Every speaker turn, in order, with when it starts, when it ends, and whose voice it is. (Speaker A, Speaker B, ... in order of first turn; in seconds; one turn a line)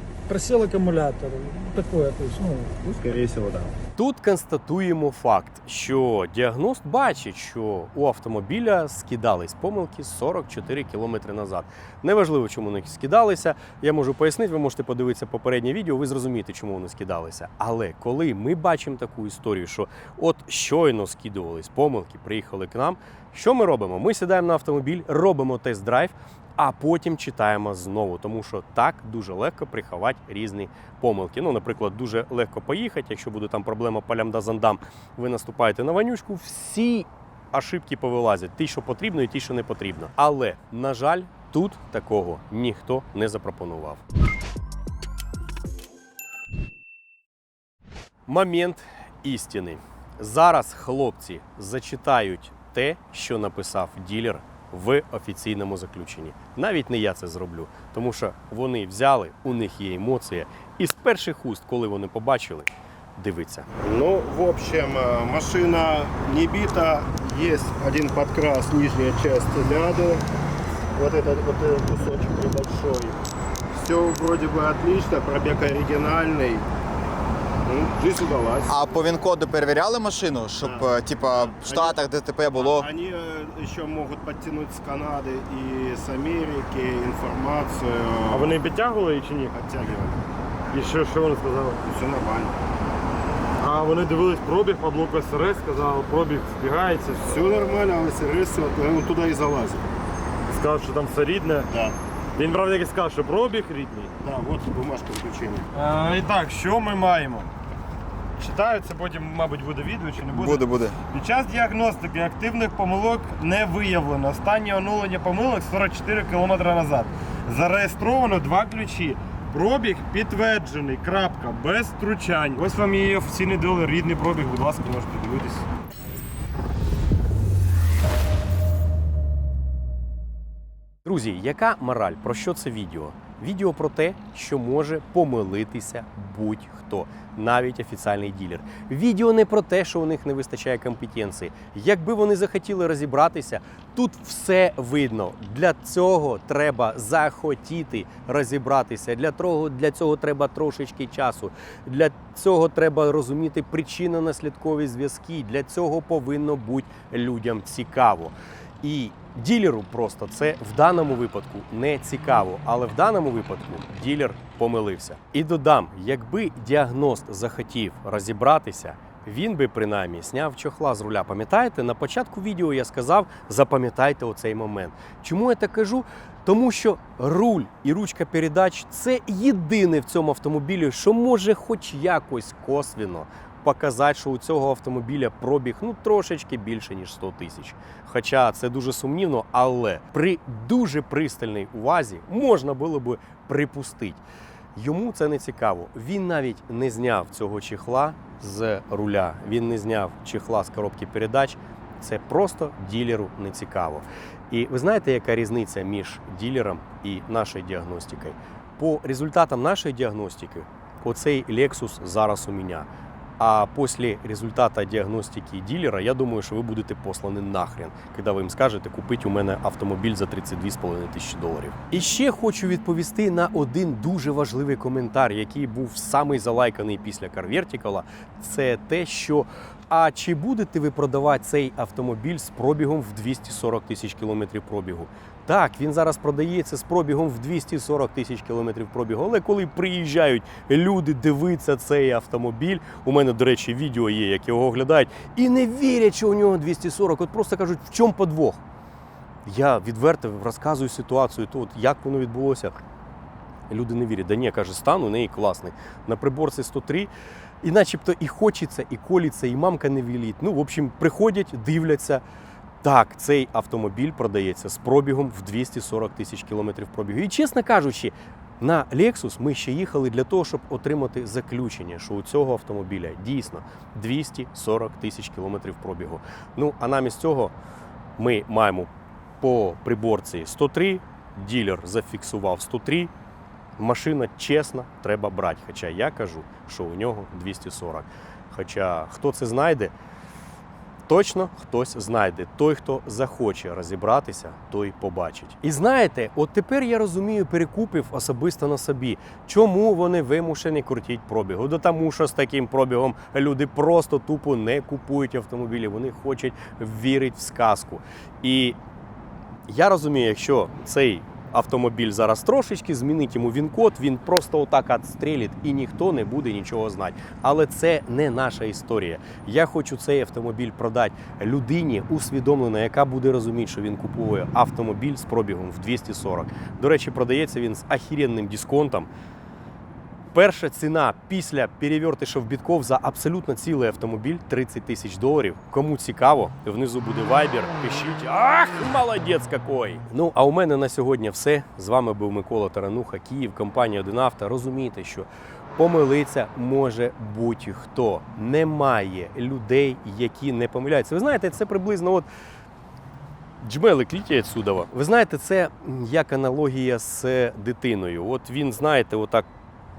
Speaker A: 0.3-2.7
Speaker B: 2.8-3.8
Speaker C: 4.0-44.0
Speaker C: 48.3-63.7
Speaker B: 63.8-70.2
Speaker B: 71.0-76.7
Speaker B: 77.7-78.8
Speaker D: 78.7-82.9
Speaker B: 80.6-82.0
Speaker B: 82.5-88.6
Speaker E: 88.3-89.5
Speaker B: 89.5-90.2
Speaker E: 90.7-91.8
Speaker B: 91.8-92.5
Speaker E: 93.6-97.4
Speaker B: 97.2-99.8
Speaker E: 100.5-101.7
Speaker B: 101.7-102.0
Speaker E: 102.4-104.2
Speaker B: 104.2-105.7
Speaker E: 105.7-107.5
Speaker E: 108.4-125.7
Speaker D: 110.2-111.0
Speaker C: 131.1-194.2
Speaker C: 194.8-212.9
Speaker C: 213.4-248.6
Speaker C: 249.4-252.7
Speaker C: 253.7-257.1
Speaker C: 257.6-262.2
Speaker C: 262.8-277.5
Speaker C: 278.2-278.9
Speaker C: 279.4-283.1
Speaker C: 283.8-289.9
Speaker C: 291.1-308.8
Speaker C: 309.7-329.1
Speaker C: 330.3-352.3
Speaker C: 353.6-359.5